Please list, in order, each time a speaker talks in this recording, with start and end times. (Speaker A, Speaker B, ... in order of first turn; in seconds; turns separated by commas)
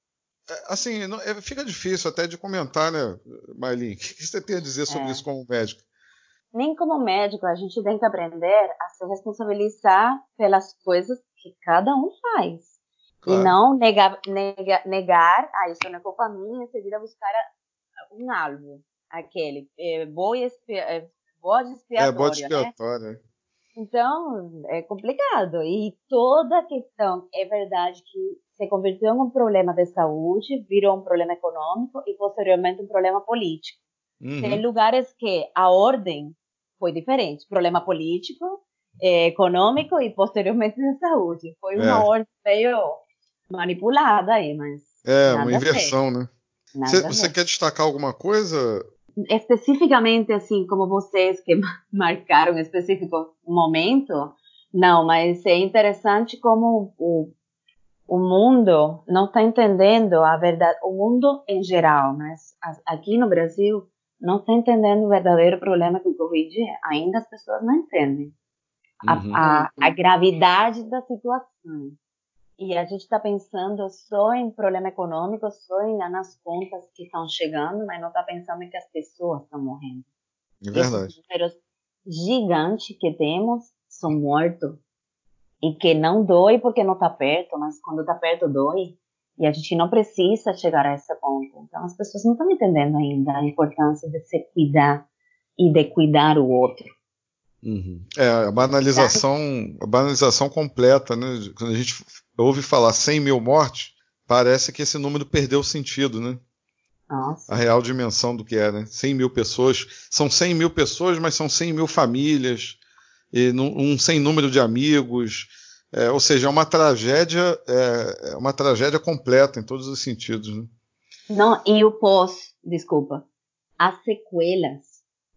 Speaker A: 0.5-5.8, Speaker B: 4.9-5.2, Speaker B: 6.5-12.8, Speaker A: 13.2-13.5, Speaker B: 13.3-17.4, Speaker B: 18.1-22.7, Speaker A: 22.0-23.2, Speaker B: 23.8-33.8, Speaker A: 34.2-34.6, Speaker B: 34.4-45.9, Speaker A: 41.8-42.1, Speaker A: 45.0-46.3, Speaker B: 46.7-47.3, Speaker A: 46.9-48.9, Speaker B: 49.2-57.3, Speaker B: 58.1-68.3, Speaker B: 69.0-72.0, Speaker A: 69.1-69.4, Speaker B: 72.6-80.0, Speaker A: 80.6-81.1, Speaker B: 80.7-84.8, Speaker B: 85.6-95.0, Speaker B: 95.6-96.9, Speaker A: 97.6-106.4, Speaker B: 98.9-99.2, Speaker B: 107.1-107.6, Speaker A: 107.5-112.8, Speaker A: 113.3-120.7, Speaker B: 121.3-123.2, Speaker B: 123.8-125.0